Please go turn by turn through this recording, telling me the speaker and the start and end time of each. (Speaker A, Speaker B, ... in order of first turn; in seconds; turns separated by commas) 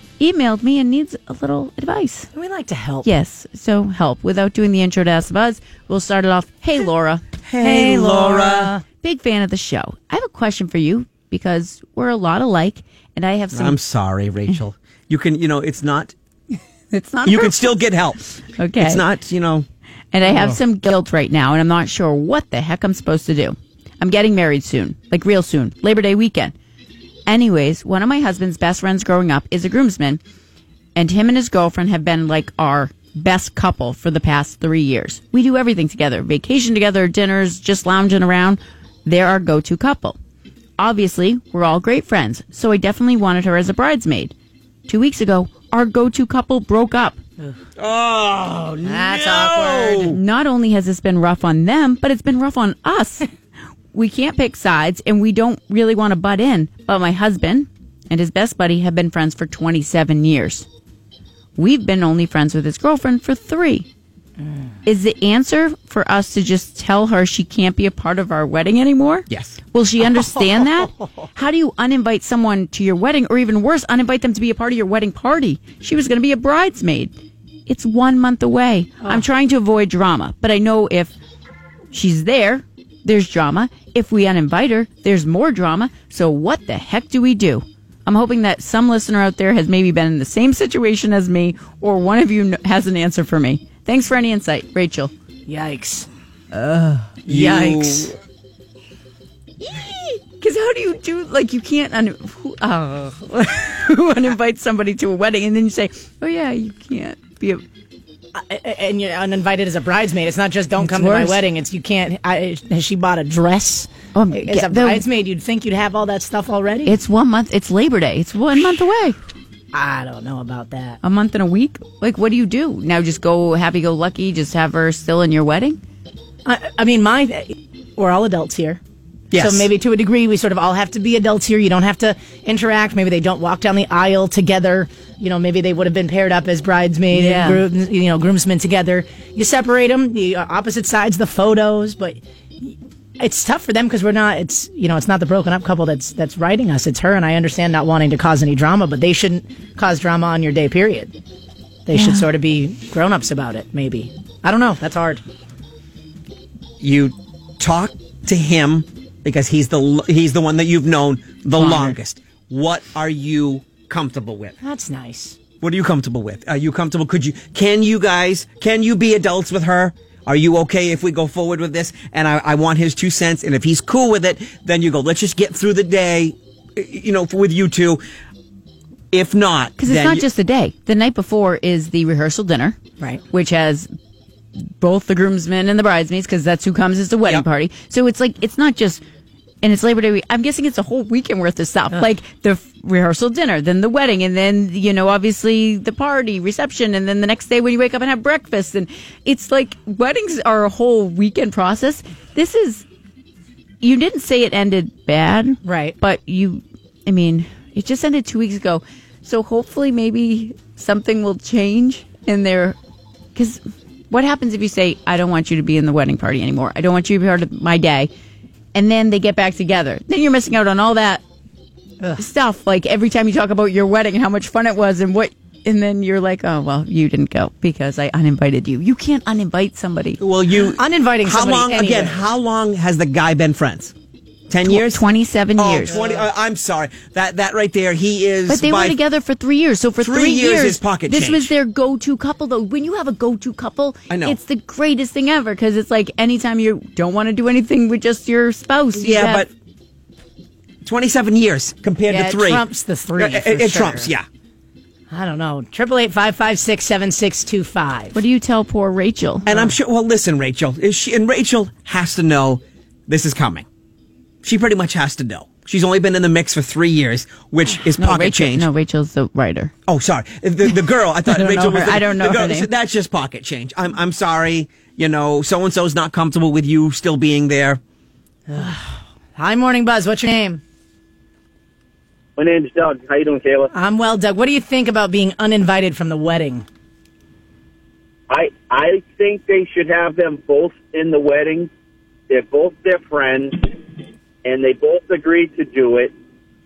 Speaker A: 0.2-2.3, Speaker B: 2.3-3.1, Speaker A: 3.0-7.2, Speaker C: 7.5-8.7, Speaker B: 7.6-8.8, Speaker A: 9.0-13.8, Speaker C: 13.5-16.1, Speaker A: 16.9-17.7, Speaker C: 17.3-18.2, Speaker A: 18.6-19.0, Speaker C: 18.8-19.7, Speaker A: 20.1-26.5, Speaker C: 20.2-20.6, Speaker A: 27.3-30.2, Speaker A: 31.0-40.2, Speaker A: 40.8-44.3, Speaker A: 44.9-47.2, Speaker C: 47.8-50.1, Speaker B: 48.9-50.1, Speaker A: 50.1-53.3, Speaker A: 53.9-60.7, Speaker A: 61.6-63.9, Speaker A: 64.8-77.1, Speaker C: 69.3-69.6, Speaker A: 77.7-81.1, Speaker A: 81.9-95.1, Speaker B: 95.5-96.1, Speaker A: 96.5-97.1, Speaker B: 97.3-98.1, Speaker C: 97.3-98.2, Speaker A: 99.6-107.6, Speaker B: 108.3-117.0, Speaker A: 110.8-111.4, Speaker A: 114.2-115.0, Speaker A: 116.9-119.2, Speaker B: 119.7-121.0, Speaker A: 121.0-125.8, Speaker B: 126.5-128.8, Speaker C: 129.3-129.7, Speaker B: 129.3-151.2, Speaker A: 137.1-137.6, Speaker B: 151.9-155.2, Speaker A: 151.9-152.2, Speaker C: 156.8-164.6, Speaker B: 164.6-165.4, Speaker C: 165.6-178.0, Speaker C: 179.1-180.3, Speaker A: 179.8-182.8, Speaker A: 183.3-183.9, Speaker A: 184.8-189.0, Speaker A: 189.6-202.8, Speaker A: 203.8-212.8, Speaker B: 205.7-206.0, Speaker A: 213.3-218.1, Speaker A: 218.8-221.2, Speaker A: 222.2-230.2, Speaker C: 230.2-233.9, Speaker B: 230.8-232.3, Speaker C: 234.5-235.1, Speaker A: 234.7-235.9, Speaker C: 235.6-239.0, Speaker B: 235.9-236.2, Speaker A: 238.5-249.5, Speaker C: 240.0-241.5, Speaker C: 244.1-244.4, Speaker C: 249.0-249.5, Speaker C: 250.8-252.7, Speaker B: 252.1-254.1, Speaker C: 253.2-254.2, Speaker B: 255.1-258.2, Speaker A: 258.1-259.5, Speaker C: 259.5-263.7, Speaker C: 264.4-268.7, Speaker A: 268.0-269.7, Speaker C: 269.9-277.8, Speaker A: 271.3-272.7, Speaker B: 278.5-280.6, Speaker D: 282.4-283.7, Speaker B: 283.7-286.6, Speaker D: 288.3-291.7, Speaker D: 292.3-293.7, Speaker D: 294.4-296.1